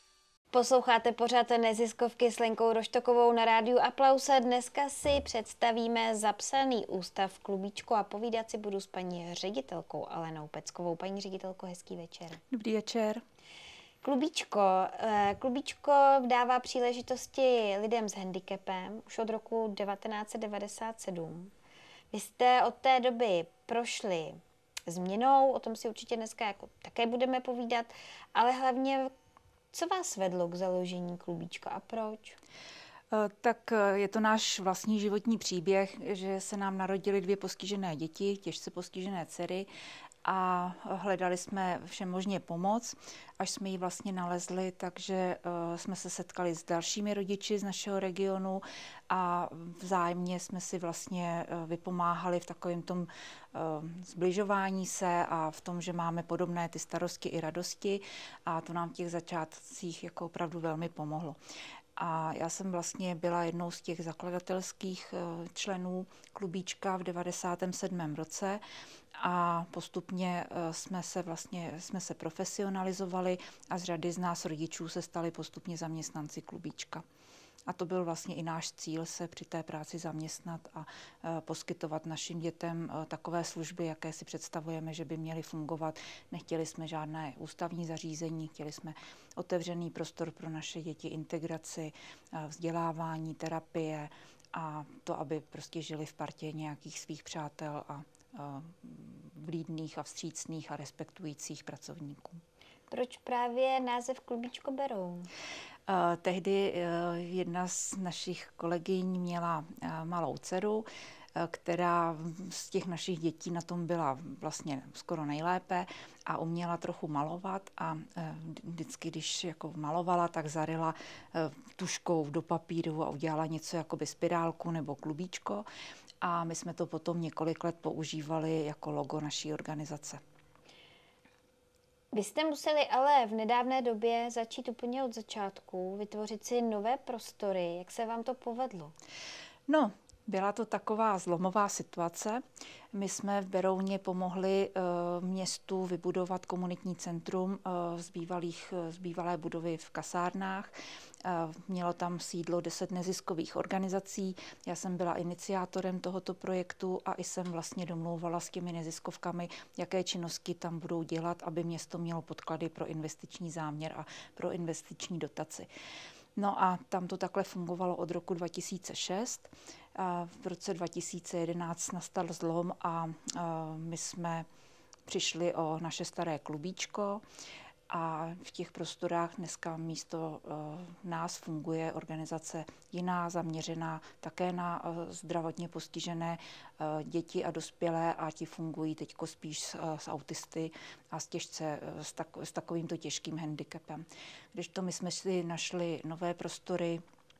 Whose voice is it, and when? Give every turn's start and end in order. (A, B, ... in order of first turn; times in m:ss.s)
0:00.5-0:12.4 A
0:12.5-0:13.2 B
0:14.0-0:21.5 A
0:22.1-0:29.1 A
0:29.7-0:32.4 A
0:33.1-0:39.7 B
0:40.2-1:01.4 B
1:02.0-1:08.6 B
1:09.1-1:17.0 B
1:17.7-1:42.4 B
1:42.9-1:45.3 A
1:45.9-2:05.6 B
2:06.2-2:10.2 B
2:12.1-2:18.9 A
2:19.7-2:45.7 B
2:46.3-2:54.5 B
2:55.1-2:57.2 B
2:57.9-3:17.0 B